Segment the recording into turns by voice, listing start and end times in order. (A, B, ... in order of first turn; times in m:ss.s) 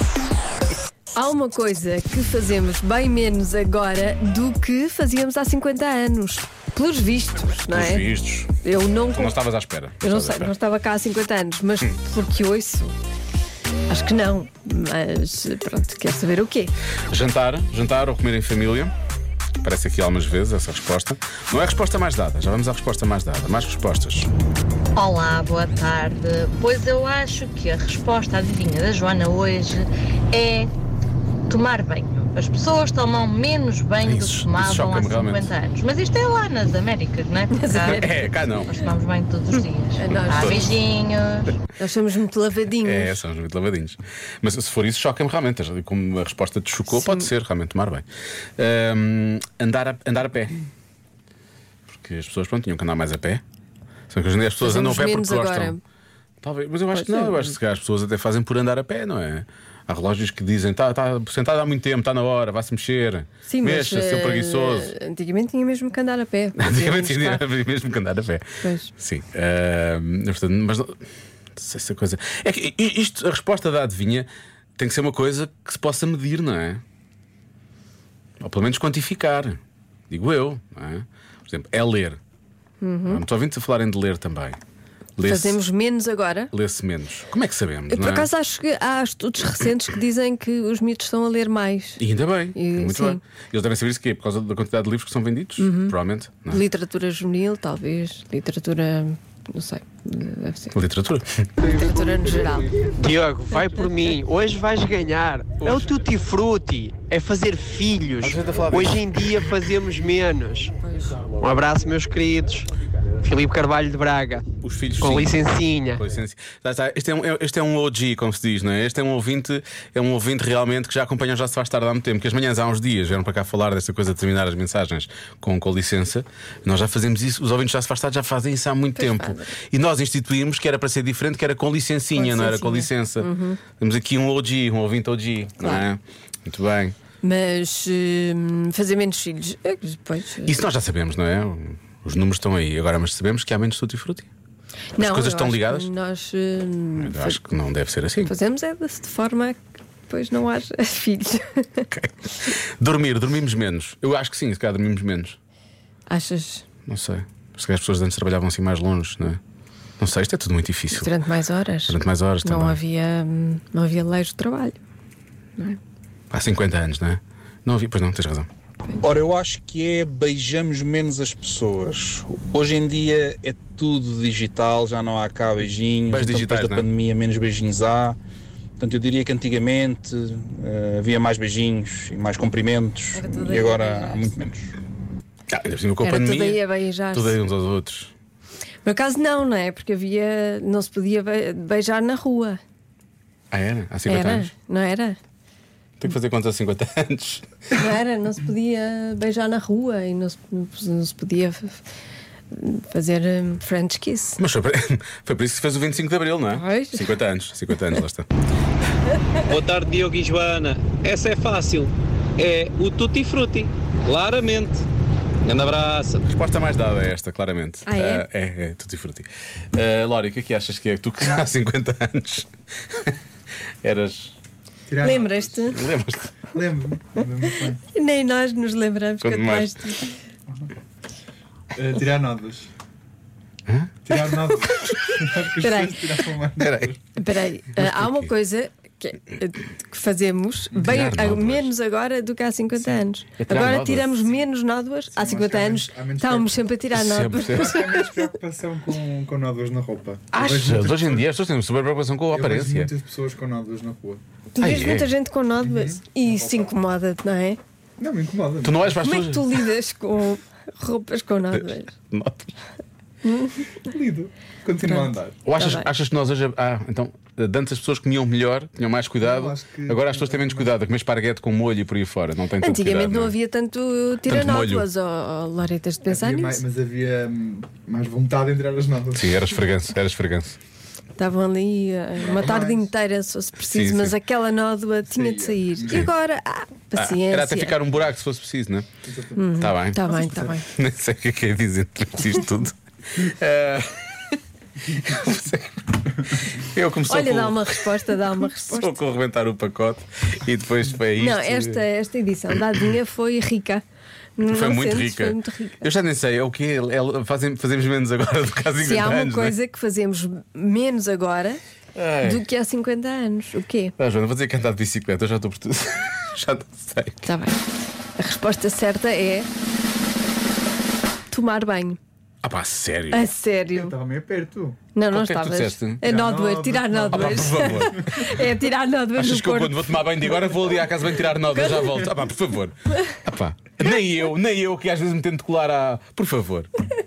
0:01.2-0:08.1 A
0:07.7-0:08.6 B
0:08.6-0:09.4 A
0:09.1-0:10.6 B
0:10.0-0:12.9 A
0:13.9-0:16.7 A
0:17.1-0:18.9 B
0:19.6-0:24.3 B
0:25.0-0:30.7 C
0:31.5-0:41.5 C
0:34.0-0:35.5 B
0:37.5-0:38.3 A
0:37.7-0:38.7 B
0:40.0-0:40.7 A
0:40.1-0:40.8 B
0:41.8-0:43.2 A
0:42.8-0:48.0 B
0:46.9-0:47.3 A
0:48.6-0:50.6 B
0:51.9-0:53.4 B
0:54.1-0:55.8 B
0:54.6-0:55.8 A
0:56.4-1:04.9 B
0:56.9-0:57.6 A
1:03.5-1:07.5 A
1:06.6-1:11.0 B
1:08.6-1:08.9 A
1:11.6-1:16.8 B
1:18.4-1:19.6 B
1:20.1-1:22.2 B
1:22.8-1:23.2 A
1:23.1-1:24.6 B
1:25.2-1:25.6 B
1:25.2-1:26.5 A
1:26.5-1:28.3 B
1:27.9-1:32.0 A
1:32.0-1:36.6 B
1:32.6-1:33.2 A
1:35.6-1:36.0 A
1:36.5-1:40.8 A
1:40.7-1:41.5 B
1:41.6-1:42.8 A
1:43.0-1:52.7 D
1:45.6-1:45.9 B
1:48.2-1:49.6 B
1:50.8-1:51.2 A
1:53.2-1:54.4 D
1:54.6-2:17.0 B
1:55.0-1:56.0 D
2:09.0-2:09.5 A
2:12.1-2:13.6 A
2:17.2-2:20.6 A
2:20.4-2:24.3 B
2:25.0-2:27.4 A
2:25.0-2:25.9 B
2:27.0-2:28.3 B
2:28.2-2:31.9 A
2:31.9-2:35.4 B
2:36.1-2:36.7 A
2:36.9-2:39.4 B
2:40.0-2:41.1 B
2:40.9-2:44.8 A
2:41.9-2:42.8 B
2:46.3-2:48.5 B
2:49.0-2:58.2 E
2:56.1-2:56.9 B
2:58.8-3:04.7 E
3:03.1-3:04.4 A
3:05.5-3:08.1 B
3:06.0-3:07.4 A
3:08.8-3:12.6 A
3:13.5-3:14.5 B
3:14.1-3:15.2 A
3:16.0-3:17.5 B
3:17.7-3:21.8 A
3:22.5-3:24.4 A
3:24.4-3:28.3 B
3:26.5-3:27.2 A
3:29.4-3:34.8 F
3:35.4-3:36.2 F
3:36.3-3:43.1 B
3:37.9-3:38.3 A
3:41.2-3:41.5 G
3:43.8-3:44.3 B
3:44.9-3:45.7 G
3:45.0-3:45.8 A
3:45.7-3:46.3 B
3:46.5-3:47.8 G
3:47.9-3:50.1 A
3:49.2-3:49.7 B
3:51.7-3:52.7 G
3:53.7-3:53.9 B
3:54.0-3:57.2 G
3:54.1-3:56.3 A
3:56.6-3:56.9 B
3:57.2-4:08.2 A
3:57.8-3:58.3 B
4:00.9-4:01.7 B
4:03.4-4:04.3 B
4:05.1-4:06.7 G
4:06.9-4:08.0 B
4:07.5-4:11.2 G
4:10.3-4:12.9 B
4:12.3-4:14.2 G
4:14.6-4:17.6 A
4:14.6-4:15.1 B
4:15.6-4:16.7 G
4:18.0-4:18.9 G
4:18.6-4:19.6 B
4:19.0-4:21.9 A
4:21.5-4:22.5 B
4:23.2-4:23.8 A
4:23.8-4:25.4 G
4:24.9-4:25.9 A
4:25.5-4:33.4 B
4:29.2-4:30.7 G
4:32.6-4:36.6 A
4:34.3-4:34.9 B
4:36.0-4:39.5 G
4:39.2-4:40.6 B
4:41.2-4:47.8 A
4:42.3-4:42.9 G
4:43.7-4:44.2 B
4:45.1-4:46.1 G
4:47.0-4:48.9 B
4:49.0-4:49.5 G
4:49.4-4:50.6 A
4:49.6-4:50.0 B
4:50.2-4:50.5 G
4:50.6-4:54.1 B
4:54.8-5:01.8 B
4:57.0-4:59.0 A
5:01.1-5:03.8 A
5:04.4-5:05.9 A
5:04.5-5:09.6 B
5:08.8-5:11.6 A
5:12.0-5:12.4 B
5:12.2-5:13.9 A
5:14.0-5:17.3 B
5:17.3-5:17.6 A
5:18.2-5:19.5 A
5:21.3-5:22.0 A
5:22.4-5:23.3 B
5:23.1-5:23.9 A
5:23.8-5:24.8 G
5:25.0-5:30.2 A
5:25.1-5:26.0 B
5:26.0-5:28.2 G
5:27.1-5:28.4 B
5:29.2-5:36.7 B
5:31.5-5:32.0 A